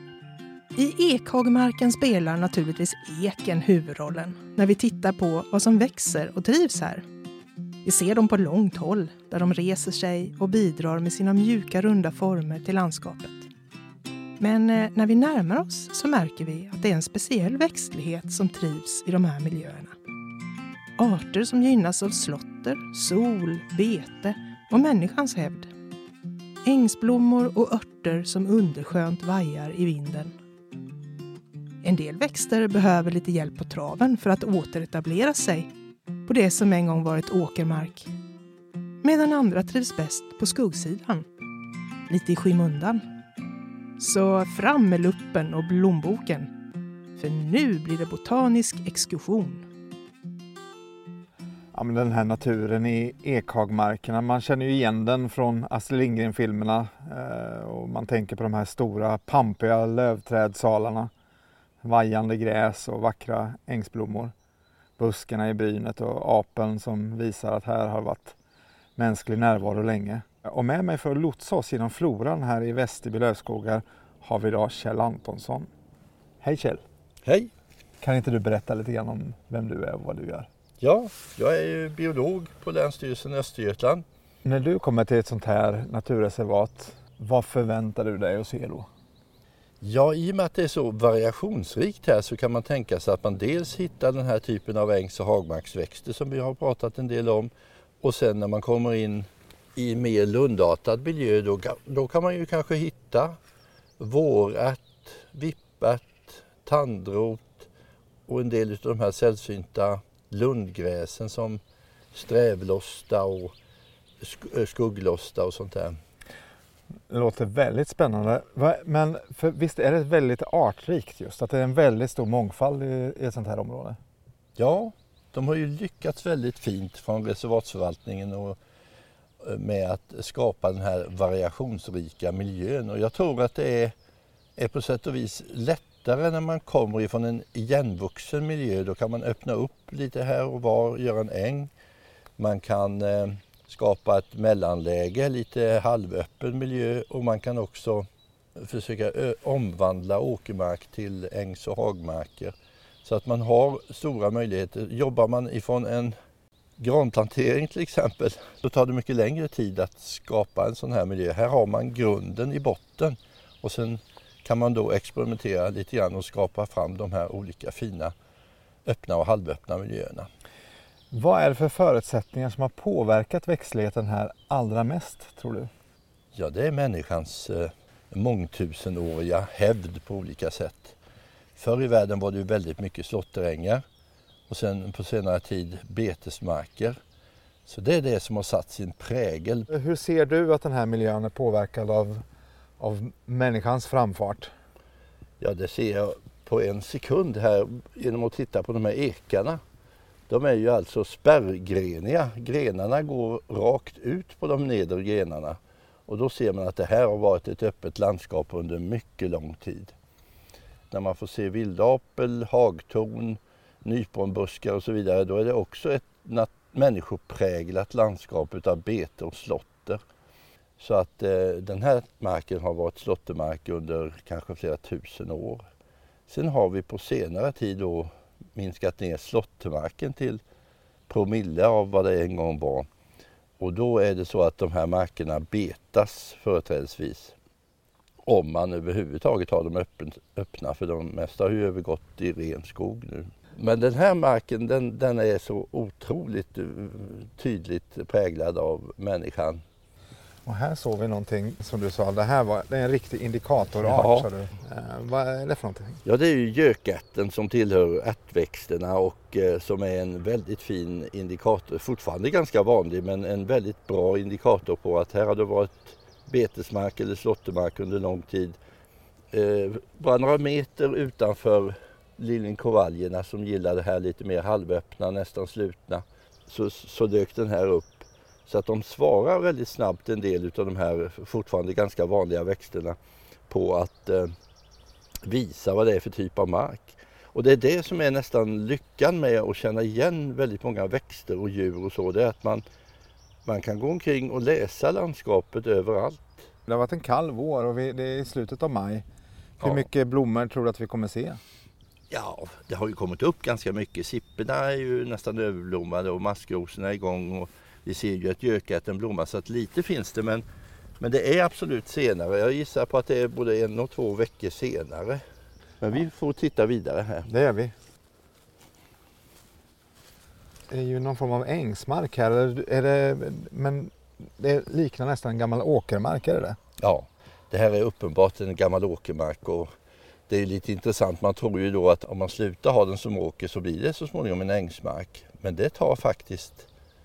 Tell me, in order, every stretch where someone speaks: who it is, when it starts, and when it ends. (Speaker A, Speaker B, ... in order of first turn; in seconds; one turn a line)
Speaker A: 0.8-7.0
Speaker A: 7.8-13.5
Speaker A: 14.4-19.9
Speaker A: 21.0-25.7
Speaker A: 26.6-30.3
Speaker A: 31.8-35.7
Speaker A: 36.3-38.1
Speaker A: 39.0-41.2
Speaker A: 42.1-43.0
Speaker A: 44.0-46.5
Speaker A: 47.2-49.6
Speaker B: 51.7-61.1
Speaker B: 61.8-64.3
Speaker B: 65.0-68.4
Speaker B: 69.0-75.7
Speaker B: 76.4-76.8
Speaker C: 77.2-77.5
Speaker B: 78.0-80.5
Speaker C: 80.8-84.0
Speaker B: 84.5-88.9
Speaker C: 89.8-103.4
Speaker C: 104.0-107.7
Speaker C: 108.3-111.6
Speaker C: 112.1-113.5
Speaker C: 114.2-116.0
Speaker B: 117.1-124.0
Speaker C: 124.6-128.6
Speaker C: 129.4-133.9
Speaker C: 134.6-141.7
Speaker C: 142.4-156.2
Speaker C: 156.8-168.1
Speaker C: 168.9-170.3
Speaker B: 171.1-175.7
Speaker C: 176.3-181.0
Speaker C: 181.6-183.8
Speaker C: 184.5-187.0
Speaker C: 187.7-189.7
Speaker B: 189.7-192.2
Speaker B: 192.8-194.5
Speaker C: 195.4-199.6
Speaker C: 200.3-209.9
Speaker C: 210.9-220.0
Speaker C: 220.8-225.6
Speaker C: 226.3-230.4
Speaker C: 231.1-232.9
Speaker C: 233.6-237.3
Speaker C: 238.2-249.6
Speaker B: 250.4-256.0
Speaker C: 253.8-254.3
Speaker C: 256.1-268.6
Speaker C: 269.3-283.0
Speaker C: 283.5-284.3
Speaker C: 285.2-292.6
Speaker C: 293.5-296.5
Speaker B: 296.7-299.1
Speaker C: 299.6-299.9
Speaker B: 299.6-301.4
Speaker C: 302.1-310.4
Speaker C: 311.0-315.2
Speaker C: 315.8-317.3
Speaker B: 317.3-317.7
Speaker B: 320.7-326.6
Speaker C: 326.8-329.7
Speaker C: 330.3-336.7